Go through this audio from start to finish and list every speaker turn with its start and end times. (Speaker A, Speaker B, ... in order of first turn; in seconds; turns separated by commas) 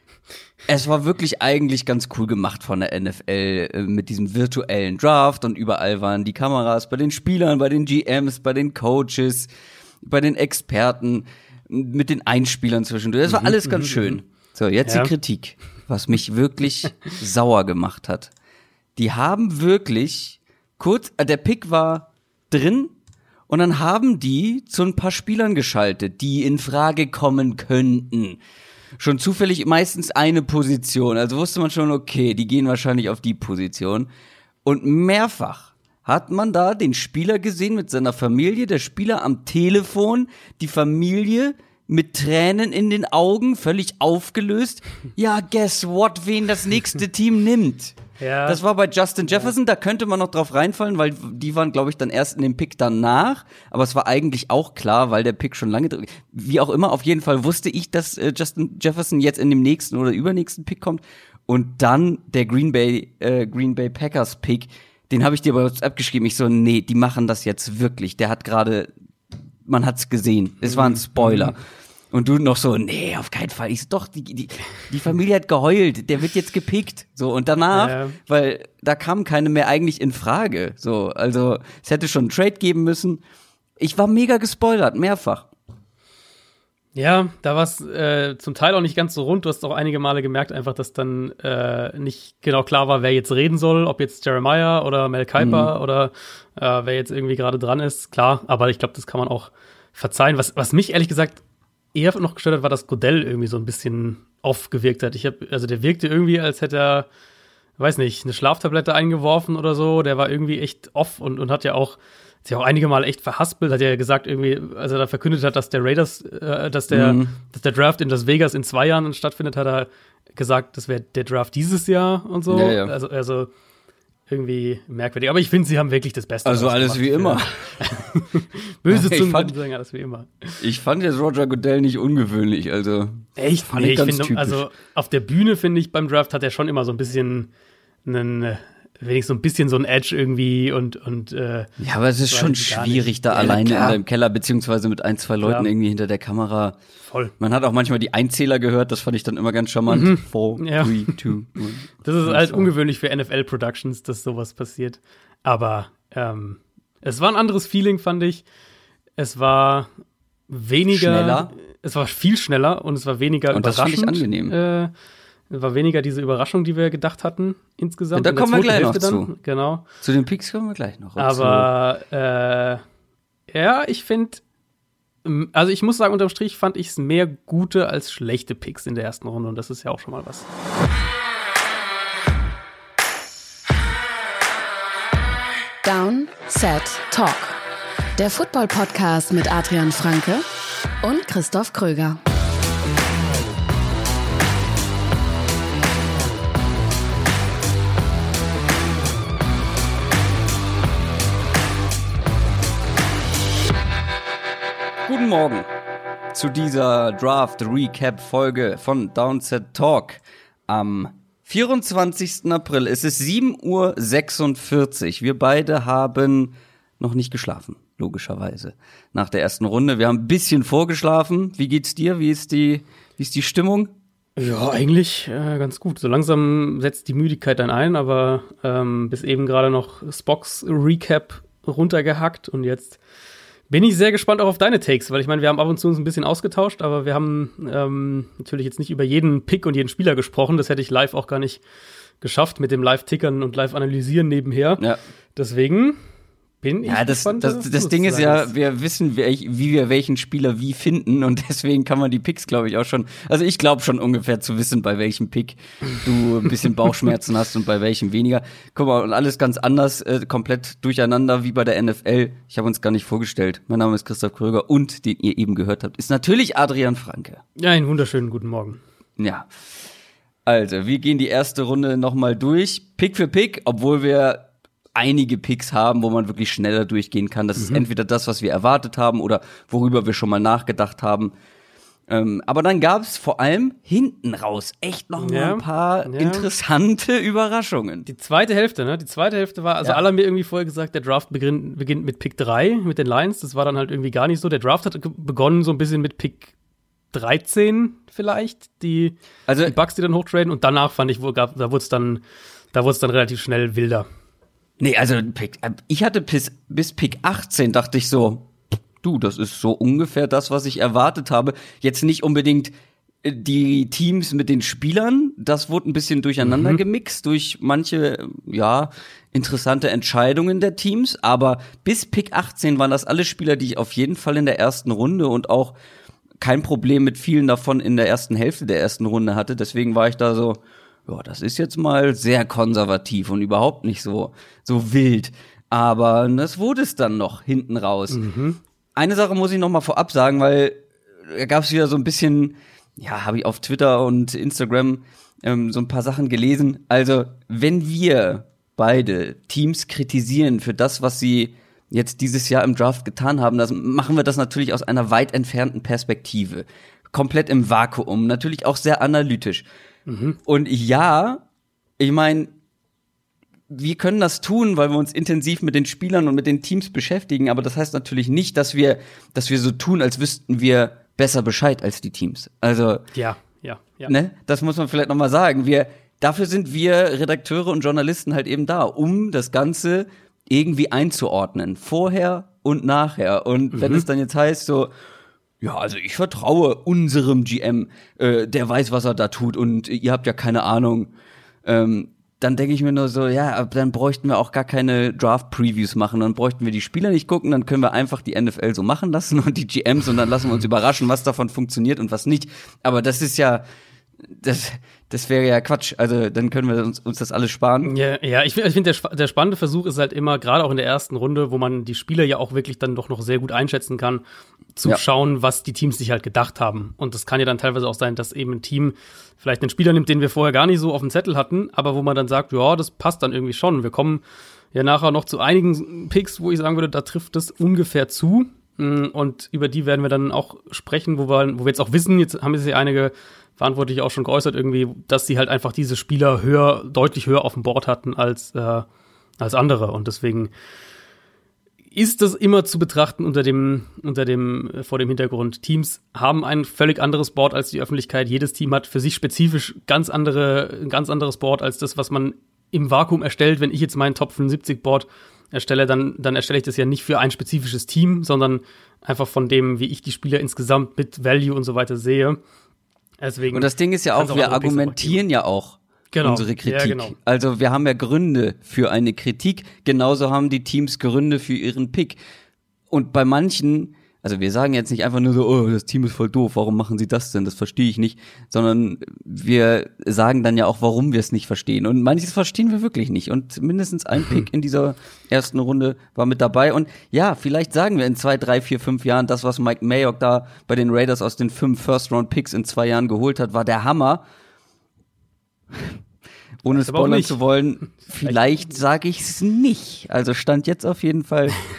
Speaker A: 0.7-9.5, Speaker A: 10.0-18.3, Speaker B: 13.3-14.2, Speaker A: 19.0-22.9, Speaker A: 23.5-28.4, Speaker A: 29.0-34.1, Speaker A: 34.6-68.9, Speaker B: 48.2-48.6, Speaker A: 69.7-83.2, Speaker B: 70.7-71.5, Speaker B: 77.7-78.2, Speaker A: 83.8-85.5, Speaker B: 87.0-101.4, Speaker A: 95.4-95.7, Speaker B: 101.9-107.1, Speaker B: 107.8-123.5, Speaker A: 116.9-117.4, Speaker A: 122.5-122.9, Speaker B: 124.3-130.6, Speaker A: 126.5-127.8, Speaker A: 128.9-129.5, Speaker A: 130.6-134.7, Speaker B: 133.4-137.5, Speaker B: 138.1-141.7, Speaker A: 141.8-146.8, Speaker B: 142.3-144.0, Speaker B: 145.4-145.7, Speaker B: 147.1-147.3, Speaker A: 147.4-152.7, Speaker B: 149.9-151.1, Speaker B: 152.0-158.4, Speaker B: 159.2-159.9, Speaker B: 160.5-164.9, Speaker A: 160.9-161.5, Speaker A: 163.5-164.6, Speaker B: 165.5-169.8, Speaker A: 168.1-169.3, Speaker A: 170.0-171.7, Speaker B: 171.2-172.8, Speaker B: 173.5-174.4, Speaker B: 175.2-180.5, Speaker C: 185.8-187.6, Speaker C: 188.2-190.4, Speaker C: 191.0-192.2, Speaker A: 205.1-205.7, Speaker A: 206.3-223.9, Speaker B: 224.4-233.0, Speaker B: 233.7-241.6, Speaker B: 242.2-244.8, Speaker B: 245.4-246.0, Speaker B: 246.6-248.5, Speaker A: 246.8-267.4, Speaker B: 267.6-268.8, Speaker A: 269.2-269.5, Speaker A: 270.5-281.3, Speaker B: 277.6-277.9, Speaker A: 282.1-288.1, Speaker B: 285.2-286.5, Speaker B: 288.1-296.5, Speaker B: 297.1-304.1, Speaker A: 299.5-299.8, Speaker A: 304.8-308.5, Speaker A: 309.0-312.7, Speaker A: 313.2-325.8, Speaker B: 316.4-316.8, Speaker A: 326.4-338.2, Speaker B: 338.1-338.6, Speaker A: 339.0-359.6, Speaker B: 360.1-360.4, Speaker A: 360.5-361.4, Speaker A: 362.0-362.5, Speaker A: 363.7-373.1, Speaker B: 373.1-374.1, Speaker A: 374.1-384.9, Speaker B: 383.7-384.1, Speaker A: 385.6-391.1, Speaker A: 391.6-403.6, Speaker A: 404.3-407.9, Speaker B: 407.9-414.2, Speaker B: 414.8-438.9, Speaker B: 439.4-440.5, Speaker B: 441.9-462.4, Speaker B: 463.2-465.2, Speaker A: 463.5-472.2, Speaker B: 466.1-467.1, Speaker A: 472.9-494.2, Speaker A: 496.6-501.6, Speaker B: 496.8-497.4